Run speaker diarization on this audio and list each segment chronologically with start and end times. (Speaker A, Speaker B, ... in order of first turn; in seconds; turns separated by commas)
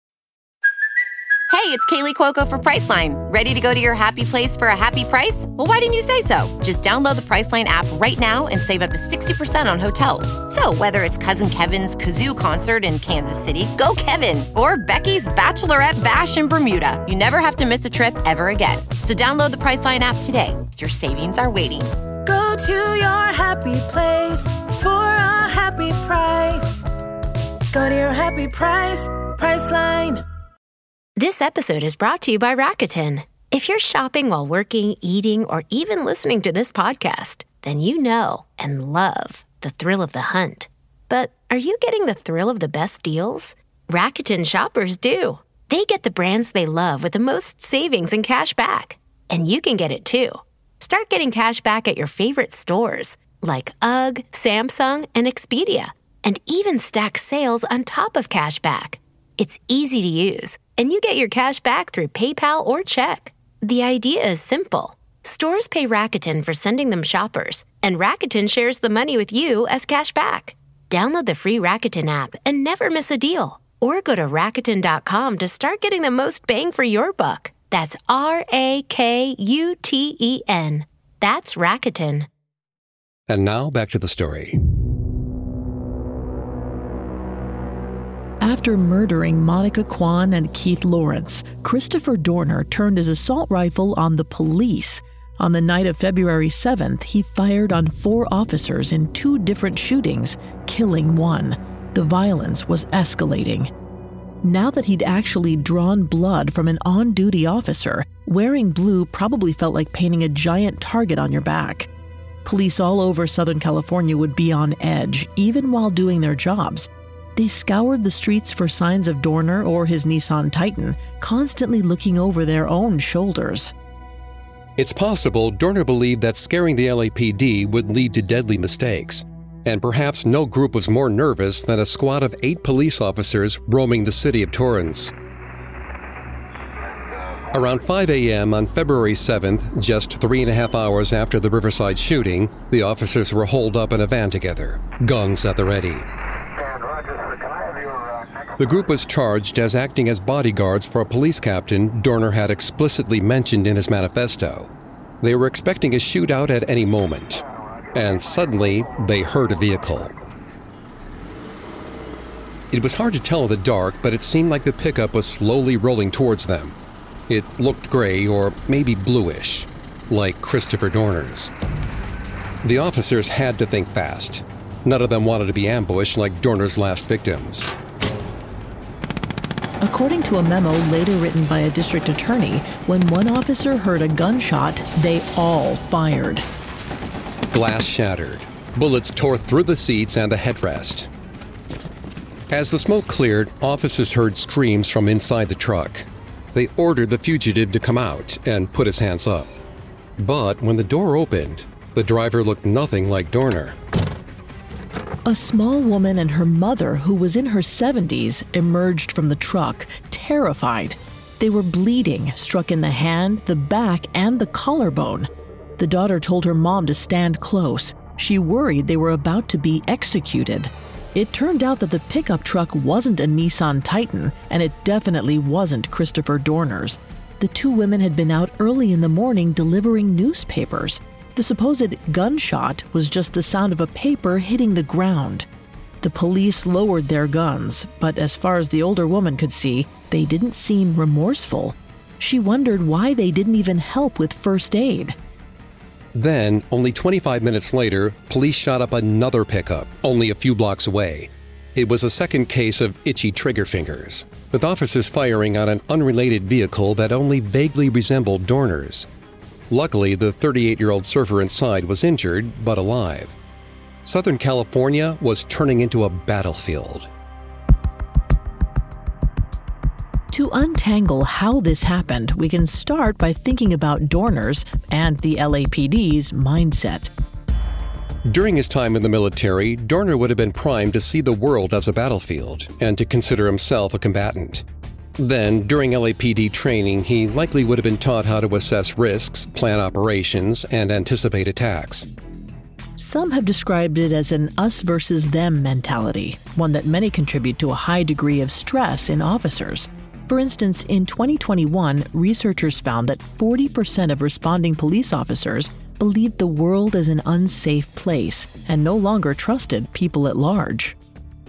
Speaker A: 1.5-21.9, Speaker B: 22.2-26.9, Speaker B: 27.7-30.2, Speaker C: 31.2-82.3, Speaker D: 83.3-84.6, Speaker E: 88.4-103.7, Speaker E: 104.4-111.9, Speaker E: 112.5-123.7, Speaker D: 124.8-135.1, Speaker D: 137.5-146.1, Speaker D: 148.6-160.2, Speaker D: 162.7-166.8, Speaker D: 167.3-171.5, Speaker D: 172.6-177.7, Speaker E: 179.8-186.5, Speaker D: 187.5-191.1, Speaker D: 192.5-199.5, Speaker D: 200.2-203.8, Speaker E: 205.3-235.5, Speaker E: 236.0-245.2, Speaker D: 246.2-259.1, Speaker D: 259.7-263.4, Speaker D: 264.0-267.1, Speaker E: 270.3-277.1, Speaker D: 278.3-284.6, Speaker D: 285.2-292.1, Speaker E: 293.0-311.0